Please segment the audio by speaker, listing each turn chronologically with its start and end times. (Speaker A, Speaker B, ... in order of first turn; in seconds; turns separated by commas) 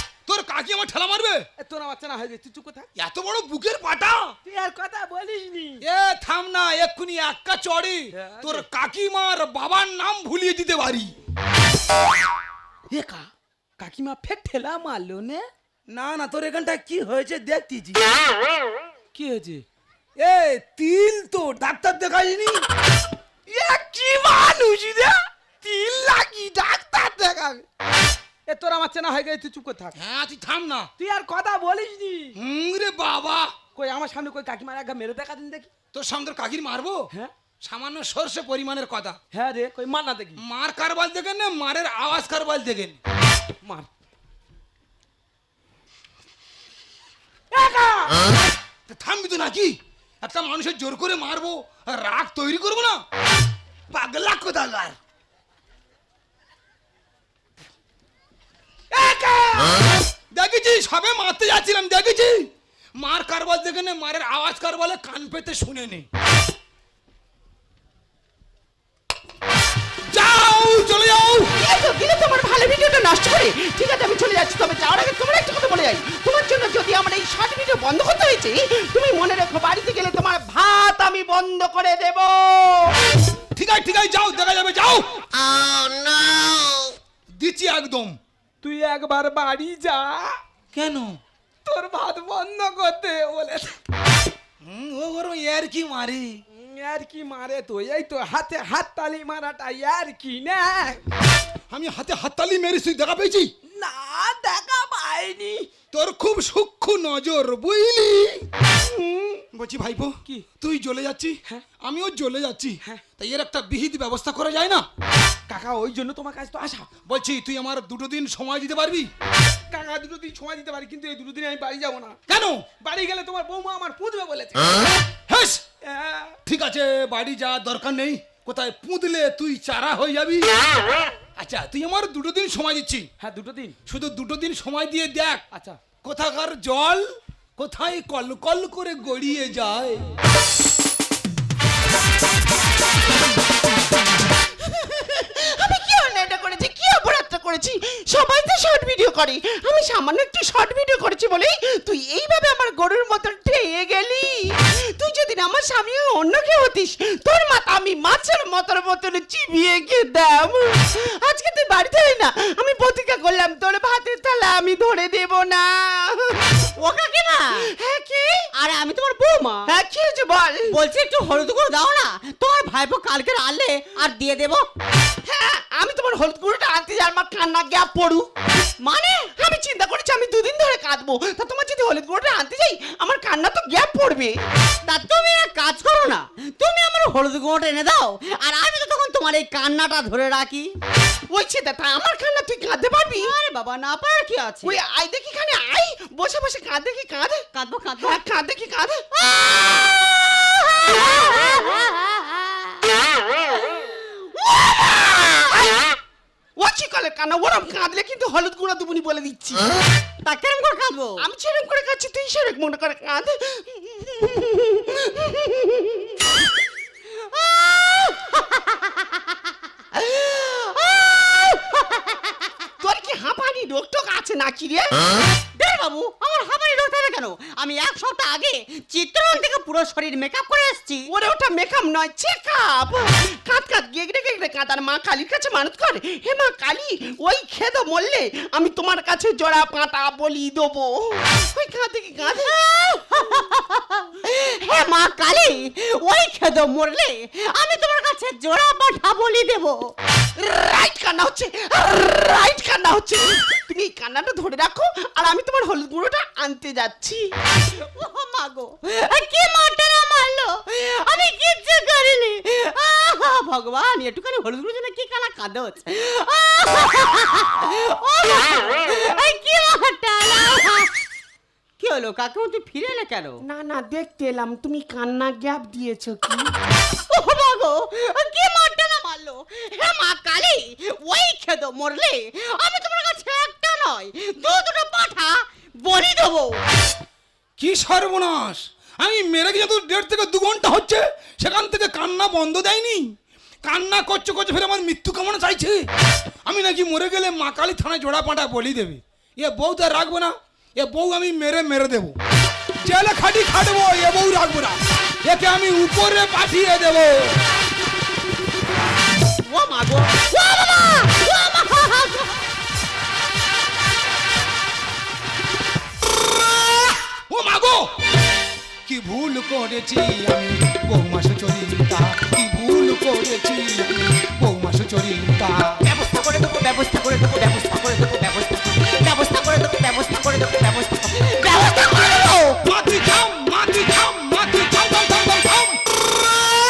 Speaker A: 0.3-1.5, Speaker B: 1.6-2.9, Speaker A: 3.0-4.3, Speaker B: 4.5-5.8, Speaker A: 5.8-11.2, Speaker B: 8.1-8.7, Speaker B: 12.9-13.3, Speaker B: 13.8-15.5, Speaker A: 15.9-18.2, Speaker B: 19.1-19.6, Speaker A: 20.2-22.7, Speaker B: 23.5-27.7, Speaker B: 28.5-30.0, Speaker A: 30.0-30.9, Speaker B: 31.0-32.4, Speaker A: 32.4-33.6, Speaker B: 33.8-35.7, Speaker A: 35.9-37.1, Speaker A: 37.6-39.2, Speaker B: 39.3-40.4, Speaker A: 40.4-43.0, Speaker B: 43.6-43.9, Speaker B: 47.5-48.3, Speaker A: 48.9-53.0, Speaker A: 53.9-55.0, Speaker B: 58.9-59.8, Speaker A: 59.8-62.5, Speaker A: 63.0-66.1, Speaker A: 70.1-71.5, Speaker C: 71.6-83.0, Speaker A: 83.5-85.2, Speaker D: 85.4-86.9, Speaker A: 87.3-88.2, Speaker B: 88.6-90.4, Speaker A: 90.7-91.2, Speaker B: 91.7-93.8, Speaker A: 94.6-96.4, Speaker B: 96.5-101.0, Speaker A: 101.7-103.5, Speaker B: 103.7-105.7, Speaker A: 105.9-108.5, Speaker B: 108.8-109.4, Speaker A: 109.5-114.8, Speaker B: 115.5-116.9, Speaker A: 117.1-119.1, Speaker B: 119.7-122.2, Speaker A: 122.3-122.7, Speaker B: 122.8-124.9, Speaker A: 125.3-125.7, Speaker B: 125.8-126.4, Speaker A: 126.5-133.1, Speaker B: 133.2-133.8, Speaker A: 133.9-135.4, Speaker B: 135.5-135.8, Speaker A: 136.0-140.0, Speaker C: 144.6-166.6, Speaker D: 166.8-167.7, Speaker C: 167.7-168.5, Speaker D: 168.6-169.7, Speaker C: 169.7-170.8, Speaker D: 170.7-174.7, Speaker C: 175.2-178.3, Speaker D: 178.8-179.3, Speaker C: 179.4-184.4, Speaker D: 184.9-190.7, Speaker C: 191.3-193.3, Speaker D: 193.2-194.8, Speaker C: 194.6-197.4, Speaker D: 197.5-198.2, Speaker C: 198.0-199.1, Speaker D: 199.2-205.8, Speaker C: 206.6-209.7, Speaker D: 210.2-211.2, Speaker C: 211.2-216.3, Speaker D: 217.1-219.3, Speaker D: 219.9-222.3, Speaker C: 222.8-225.0, Speaker D: 225.6-231.1, Speaker C: 231.1-242.6, Speaker D: 242.3-249.9, Speaker C: 250.4-257.3, Speaker D: 257.7-270.9, Speaker D: 271.8-273.4, Speaker C: 273.5-276.5, Speaker D: 277.1-286.6, Speaker A: 287.6-293.1, Speaker A: 293.6-295.9, Speaker A: 296.4-302.2, Speaker A: 302.8-307.4, Speaker D: 309.5-312.4, Speaker A: 317.3-317.9, Speaker A: 318.9-325.8, Speaker D: 325.8-332.6, Speaker A: 332.6-335.8